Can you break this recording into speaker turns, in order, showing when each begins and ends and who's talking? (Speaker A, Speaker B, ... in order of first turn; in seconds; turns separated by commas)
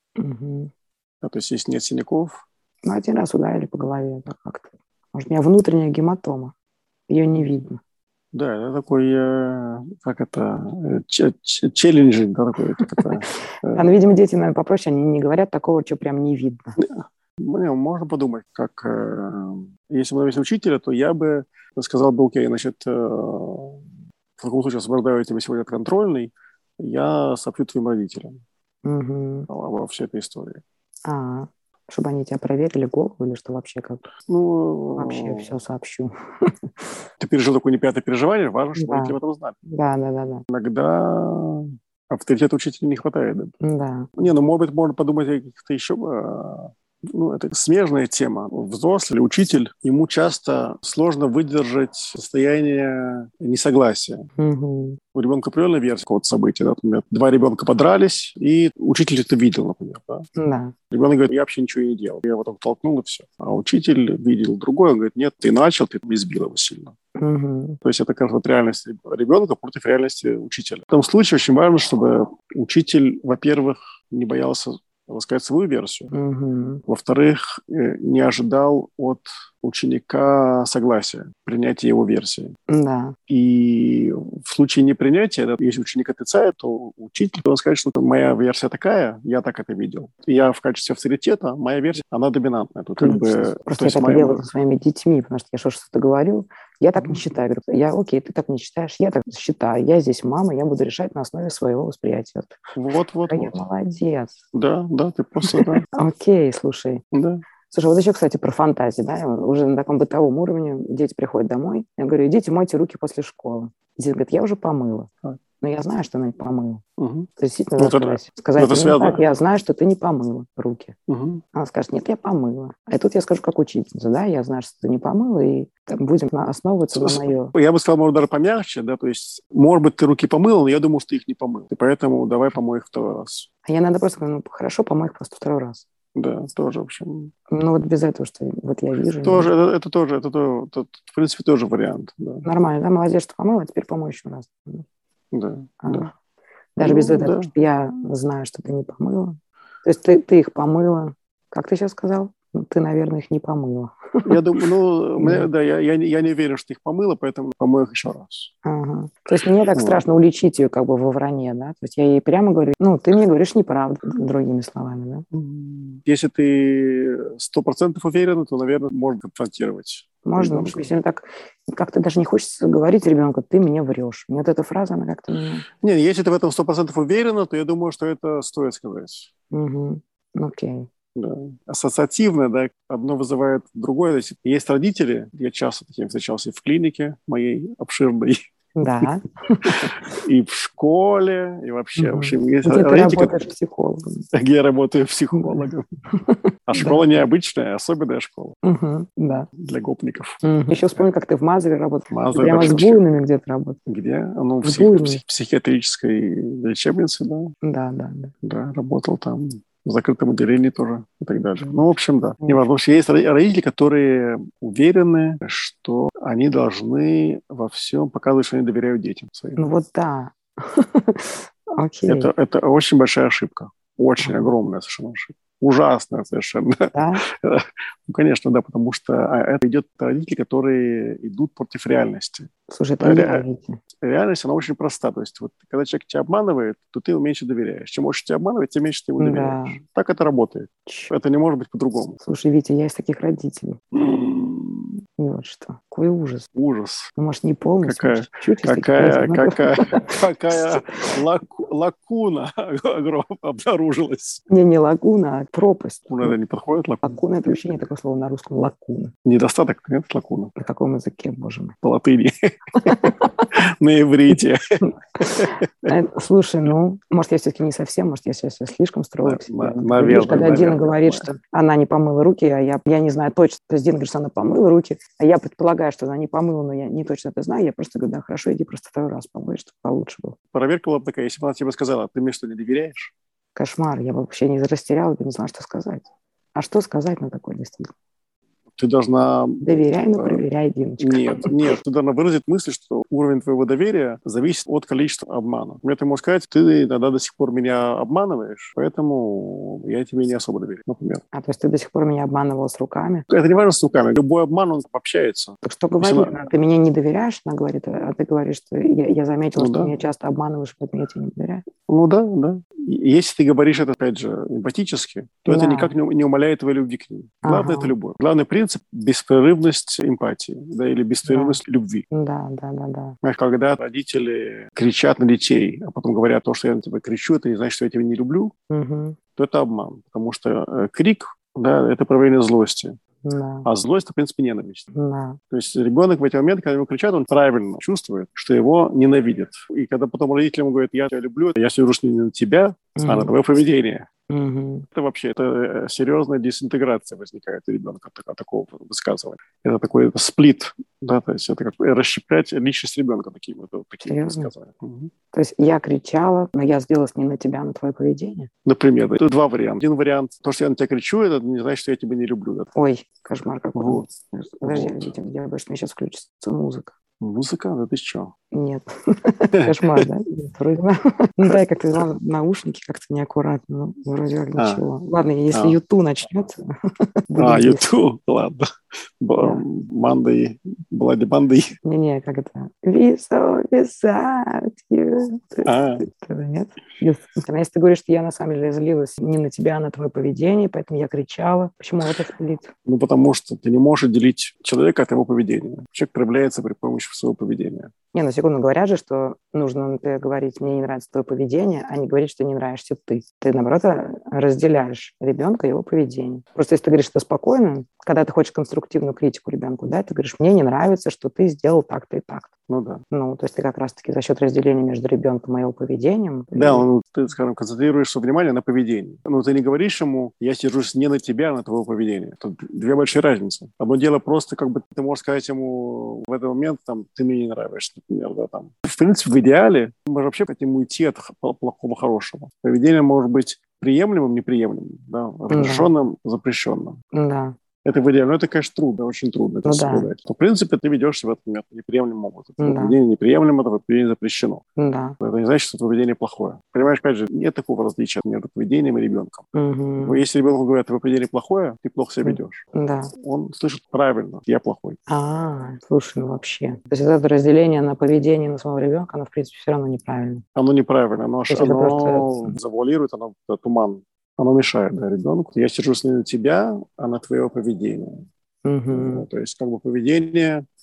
Speaker A: 0.2-0.7, Speaker B: 1.2-2.4, Speaker A: 2.8-6.5, Speaker A: 7.1-7.8, Speaker B: 8.3-13.8, Speaker A: 12.8-16.8, Speaker B: 16.8-23.8, Speaker B: 24.4-28.4, Speaker A: 28.8-29.5, Speaker B: 29.5-30.6, Speaker A: 31.1-34.0, Speaker B: 34.3-35.5, Speaker A: 35.0-36.9, Speaker B: 37.2-39.6, Speaker A: 38.8-40.4, Speaker B: 40.5-43.5, Speaker A: 43.6-44.1, Speaker B: 44.2-54.3, Speaker A: 54.4-55.0, Speaker B: 55.1-60.3, Speaker A: 60.4-60.7, Speaker B: 60.9-66.9, Speaker A: 67.2-67.8, Speaker B: 67.8-76.1, Speaker A: 76.1-76.8, Speaker B: 76.9-82.5, Speaker A: 82.7-83.2, Speaker B: 83.3-94.4, Speaker A: 93.0-102.6, Speaker B: 102.7-103.6, Speaker A: 103.3-104.3, Speaker B: 104.5-105.8, Speaker A: 105.4-107.0, Speaker B: 107.1-107.4, Speaker A: 107.7-115.1, Speaker A: 115.6-116.8, Speaker B: 117.0-119.2, Speaker A: 117.4-121.0, Speaker B: 121.1-121.4, Speaker A: 121.5-127.5, Speaker B: 126.9-133.5, Speaker A: 133.6-135.8, Speaker B: 136.1-137.3, Speaker A: 137.5-139.5, Speaker B: 139.2-142.4, Speaker A: 142.4-144.8, Speaker B: 145.3-146.1, Speaker A: 145.8-146.1, Speaker A: 146.8-154.3, Speaker B: 146.8-147.5, Speaker B: 154.2-158.5, Speaker A: 155.2-155.5, Speaker A: 158.6-165.2, Speaker B: 159.7-160.0, Speaker B: 165.3-170.9, Speaker A: 170.2-175.6, Speaker B: 175.8-179.3, Speaker A: 179.5-180.9, Speaker B: 181.1-188.4, Speaker A: 188.8-190.2, Speaker B: 189.6-193.3, Speaker A: 192.0-194.2, Speaker B: 194.3-195.8, Speaker A: 195.3-197.0, Speaker B: 196.7-198.6, Speaker A: 198.6-199.5, Speaker B: 199.6-200.4, Speaker A: 200.4-203.8, Speaker B: 202.1-203.0, Speaker B: 203.9-207.5, Speaker A: 204.6-205.2, Speaker A: 207.6-208.3, Speaker B: 208.4-219.6, Speaker A: 219.6-222.3, Speaker B: 222.1-232.5, Speaker A: 224.2-224.5, Speaker A: 226.9-227.2, Speaker A: 232.7-233.8, Speaker B: 233.0-233.4, Speaker B: 234.0-242.2, Speaker A: 239.2-239.8, Speaker A: 242.2-243.8, Speaker B: 243.9-244.9, Speaker A: 245.2-246.5, Speaker B: 246.5-247.1, Speaker A: 247.2-251.2, Speaker B: 247.8-254.4, Speaker A: 254.5-256.3, Speaker B: 256.1-257.6, Speaker A: 257.0-259.1, Speaker B: 259.2-260.5, Speaker A: 260.6-261.8, Speaker B: 261.8-265.9, Speaker A: 262.8-263.5, Speaker A: 264.8-280.4, Speaker B: 269.2-271.3, Speaker B: 280.5-283.1, Speaker A: 283.5-287.9, Speaker B: 288.8-290.4, Speaker A: 289.6-291.7, Speaker B: 291.0-301.2, Speaker A: 301.3-303.2, Speaker B: 303.3-306.3, Speaker A: 305.6-311.6, Speaker B: 309.6-309.9, Speaker B: 311.9-322.0, Speaker A: 315.5-315.9, Speaker A: 317.4-317.9, Speaker A: 321.2-321.6, Speaker A: 322.1-323.1, Speaker B: 323.2-328.5, Speaker A: 328.7-329.2, Speaker B: 329.4-333.0, Speaker A: 333.2-333.7, Speaker B: 333.6-334.8, Speaker A: 334.9-335.4, Speaker B: 335.5-344.1, Speaker A: 342.9-343.3, Speaker A: 344.3-344.9, Speaker B: 344.9-355.1, Speaker A: 354.0-354.5, Speaker A: 355.3-358.5, Speaker B: 358.6-362.7, Speaker A: 362.7-366.9, Speaker B: 363.7-364.1, Speaker B: 364.6-365.1, Speaker B: 367.2-368.3, Speaker A: 368.5-376.7, Speaker B: 369.5-370.1, Speaker B: 374.6-374.8, Speaker A: 377.3-377.8, Speaker B: 377.4-378.7, Speaker B: 379.2-381.8, Speaker A: 379.4-379.6, Speaker A: 381.8-392.7, Speaker B: 385.6-386.0, Speaker B: 392.9-397.9, Speaker A: 398.1-412.5, Speaker B: 412.7-413.0, Speaker A: 413.1-416.8, Speaker B: 416.5-437.0, Speaker A: 435.5-435.9, Speaker A: 437.1-437.6, Speaker B: 437.8-444.6, Speaker A: 439.6-440.1, Speaker A: 442.6-443.0, Speaker A: 444.8-445.2, Speaker B: 445.2-449.4, Speaker A: 449.5-450.2, Speaker B: 450.0-452.6, Speaker A: 452.2-453.1, Speaker B: 453.2-455.0, Speaker A: 455.1-460.4, Speaker B: 460.5-468.2, Speaker A: 461.5-462.6, Speaker A: 468.6-469.2, Speaker B: 468.9-470.6